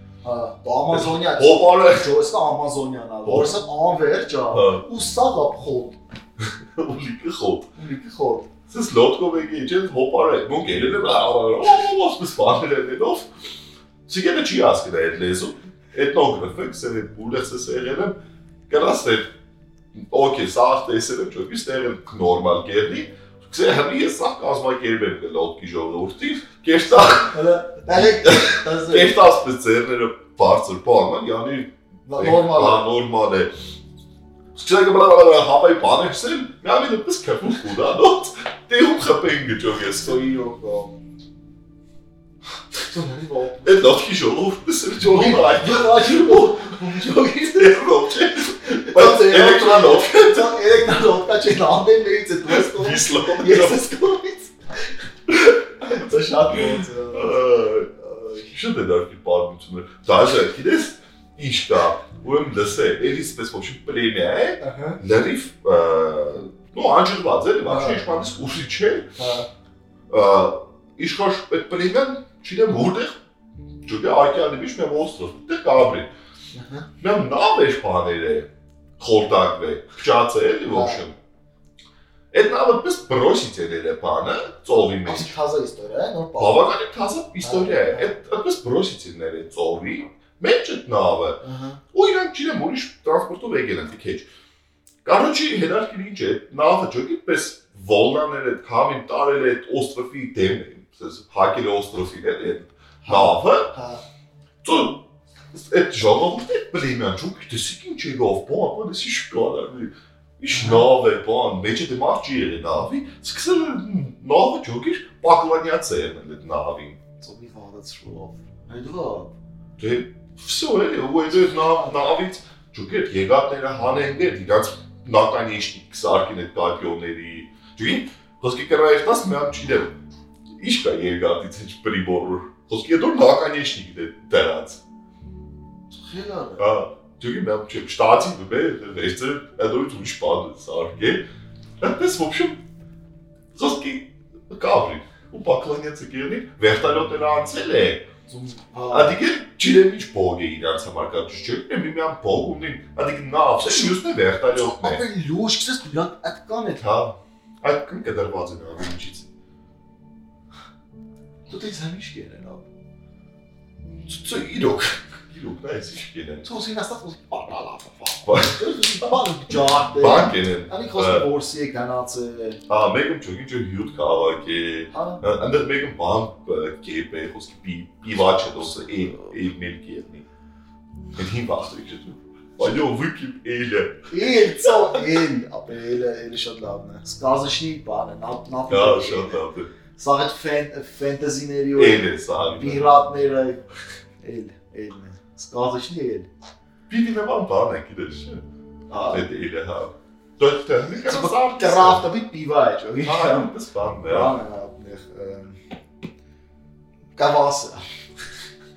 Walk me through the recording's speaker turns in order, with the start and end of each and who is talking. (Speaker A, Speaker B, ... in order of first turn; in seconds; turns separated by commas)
Speaker A: 0.2-6.0, Speaker B: 0.9-2.1, Speaker B: 3.2-3.5, Speaker B: 4.5-4.8, Speaker B: 6.4-7.7, Speaker A: 7.8-8.5, Speaker B: 8.7-13.3, Speaker B: 14.1-18.2, Speaker B: 18.7-19.3, Speaker B: 19.9-27.4, Speaker A: 26.9-29.1, Speaker B: 27.9-33.5, Speaker A: 32.0-32.8, Speaker B: 34.5-40.2, Speaker A: 40.0-40.9, Speaker A: 42.8-43.9, Speaker B: 43.6-50.6, Speaker A: 45.0-47.9, Speaker A: 48.7-54.5, Speaker B: 52.5-53.8, Speaker A: 55.3-58.5, Speaker B: 56.5-57.9, Speaker B: 58.5-69.1, Speaker A: 64.6-65.0, Speaker A: 67.7-68.1, Speaker A: 69.2-69.5, Speaker B: 70.1-73.2, Speaker B: 73.8-76.1, Speaker A: 76.5-76.9, Speaker B: 77.0-81.1, Speaker A: 80.7-81.0, Speaker B: 82.3-85.3, Speaker A: 85.0-86.7, Speaker B: 86.4-91.4, Speaker A: 87.4-88.2, Speaker A: 91.4-91.8, Speaker B: 91.9-94.3, Speaker B: 95.0-103.7, Speaker A: 103.0-104.0, Speaker B: 104.6-117.0, Speaker A: 110.5-110.8, Speaker A: 117.2-119.3, Speaker B: 119.8-129.9, Speaker A: 121.5-121.9, Speaker B: 130.6-134.8, Speaker A: 136.0-136.7, Speaker B: 136.6-141.2, Speaker B: 141.8-142.6, Speaker B: 143.5-148.1, Speaker A: 148.3-149.2, Speaker B: 148.9-155.0, Speaker A: 153.6-154.0, Speaker A: 154.5-156.8, Speaker B: 156.8-159.3, Speaker A: 161.5-162.7, Speaker B: 164.1-166.5, Speaker A: 166.4-172.6, Speaker B: 168.2-169.1, Speaker B: 170.0-171.3, Speaker B: 172.7-180.2, Speaker A: 174.9-175.2, Speaker A: 178.8-179.3, Speaker B: 181.1-185.2, Speaker A: 184.1-192.0, Speaker B: 188.7-189.7, Speaker B: 191.8-192.9, Speaker A: 192.6-193.6, Speaker A: 194.2-196.3, Speaker B: 196.9-198.4, Speaker A: 198.9-199.2, Speaker B: 199.1-202.1, Speaker A: 201.0-203.5, Speaker B: 203.0-204.3, Speaker A: 204.0-205.6, Speaker A: 207.2-207.8